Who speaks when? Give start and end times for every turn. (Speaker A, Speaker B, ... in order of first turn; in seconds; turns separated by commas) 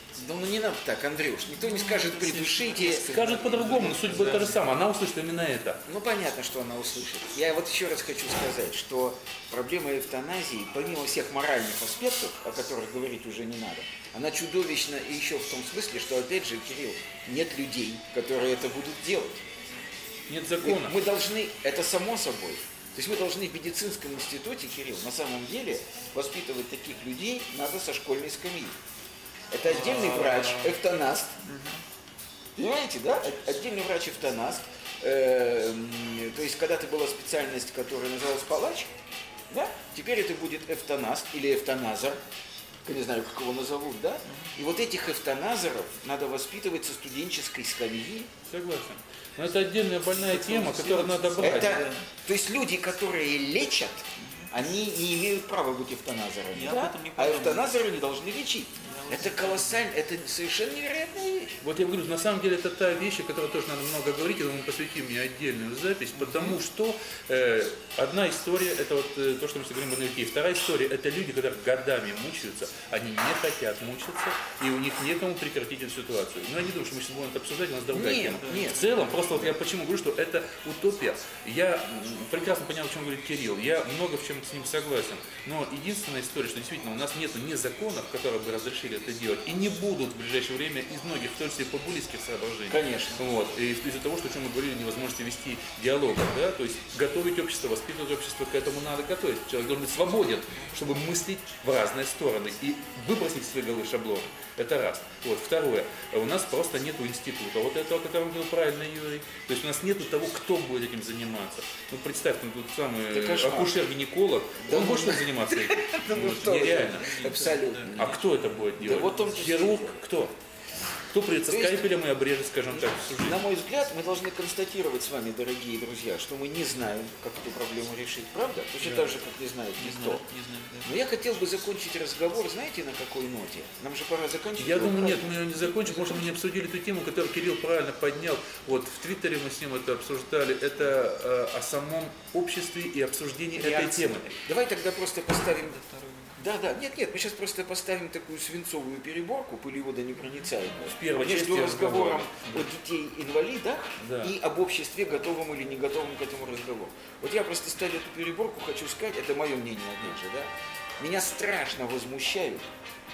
Speaker A: 0.1-3.2, Speaker B: 1.6-4.6, Speaker C: 3.0-5.8, Speaker A: 5.8-19.4, Speaker C: 20.3-20.9, Speaker A: 20.6-28.8, Speaker A: 29.5-31.4, Speaker B: 29.6-30.8, Speaker B: 31.4-31.8, Speaker A: 32.5-38.9, Speaker A: 39.5-42.2, Speaker A: 42.8-48.3, Speaker B: 44.2-44.6, Speaker C: 48.4-51.8, Speaker B: 50.1-52.1, Speaker A: 50.8-61.6, Speaker B: 54.1-54.5, Speaker B: 56.5-57.7, Speaker B: 58.8-59.9, Speaker C: 61.6-120.3, Speaker B: 66.2-66.6, Speaker A: 77.9-78.8, Speaker B: 78.4-79.5, Speaker A: 92.7-93.2, Speaker A: 113.1-113.8, Speaker A: 114.6-118.2, Speaker B: 117.0-118.2, Speaker A: 118.8-120.0, Speaker C: 121.1-123.4, Speaker A: 121.5-121.9, Speaker A: 122.7-130.2, Speaker C: 128.8-129.1, Speaker B: 129.8-131.0, Speaker A: 130.8-136.6, Speaker C: 134.6-144.3, Speaker B: 143.6-144.4, Speaker A: 143.6-143.9, Speaker A: 144.4-145.8, Speaker B: 145.4-146.4, Speaker A: 146.3-162.6, Speaker C: 150.9-152.7, Speaker C: 154.0-154.3